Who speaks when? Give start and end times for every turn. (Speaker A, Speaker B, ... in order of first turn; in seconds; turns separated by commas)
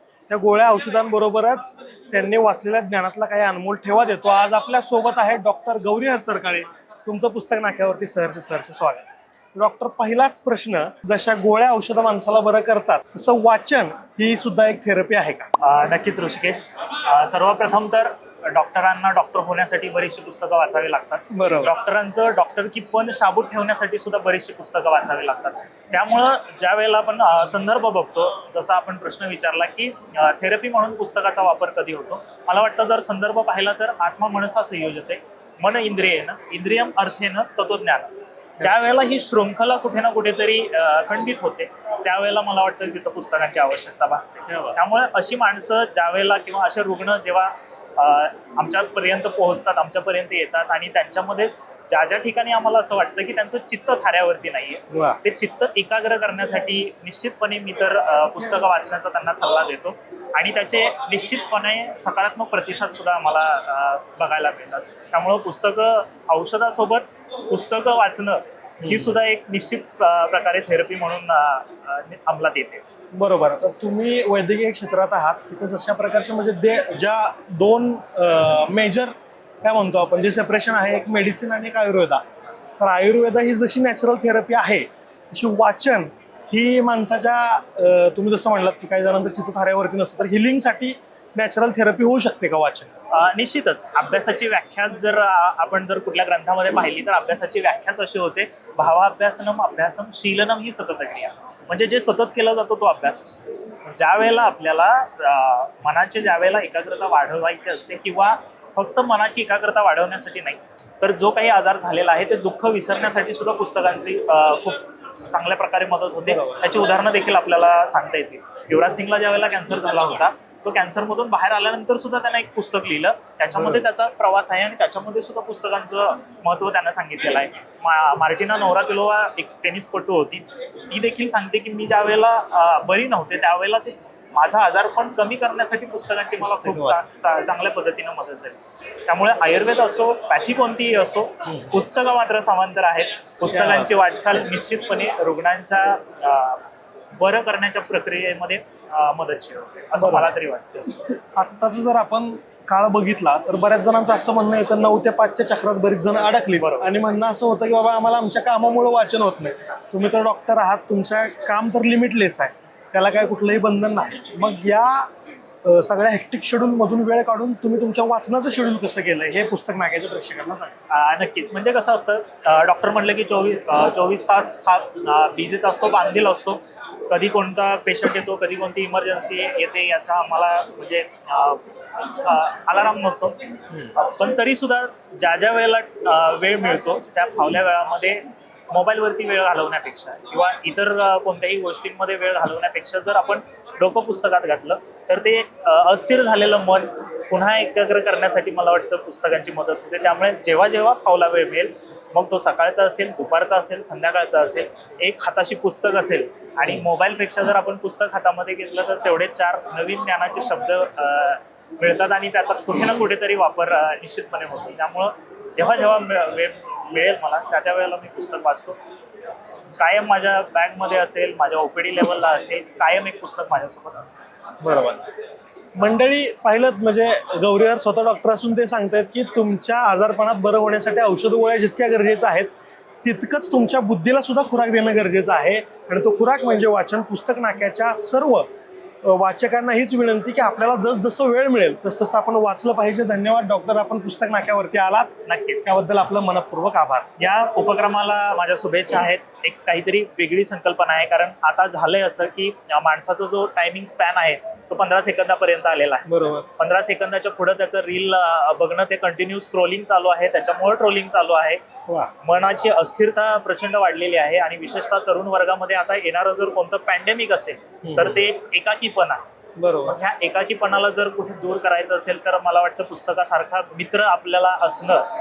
Speaker A: 0.3-15.5, Speaker B: 15.6-72.8, Speaker A: 21.3-21.7, Speaker A: 44.5-44.7, Speaker A: 54.9-55.2, Speaker A: 68.8-69.1, Speaker A: 73.1-82.2, Speaker A: 82.8-92.9, Speaker B: 93.1-146.7, Speaker A: 116.3-116.6, Speaker A: 136.4-137.0, Speaker A: 143.5-143.9, Speaker B: 147.2-150.9, Speaker A: 150.0-150.3, Speaker A: 151.3-165.1, Speaker B: 156.6-156.9, Speaker A: 165.6-170.7, Speaker B: 170.9-218.8, Speaker B: 219.8-224.6, Speaker A: 224.6-225.0, Speaker A: 225.8-232.5, Speaker A: 233.0-238.4, Speaker A: 239.0-247.1, Speaker B: 245.2-245.7, Speaker B: 247.2-261.6, Speaker A: 256.1-256.4, Speaker B: 262.2-269.2, Speaker A: 267.8-268.2, Speaker A: 269.6-270.0, Speaker B: 269.8-275.1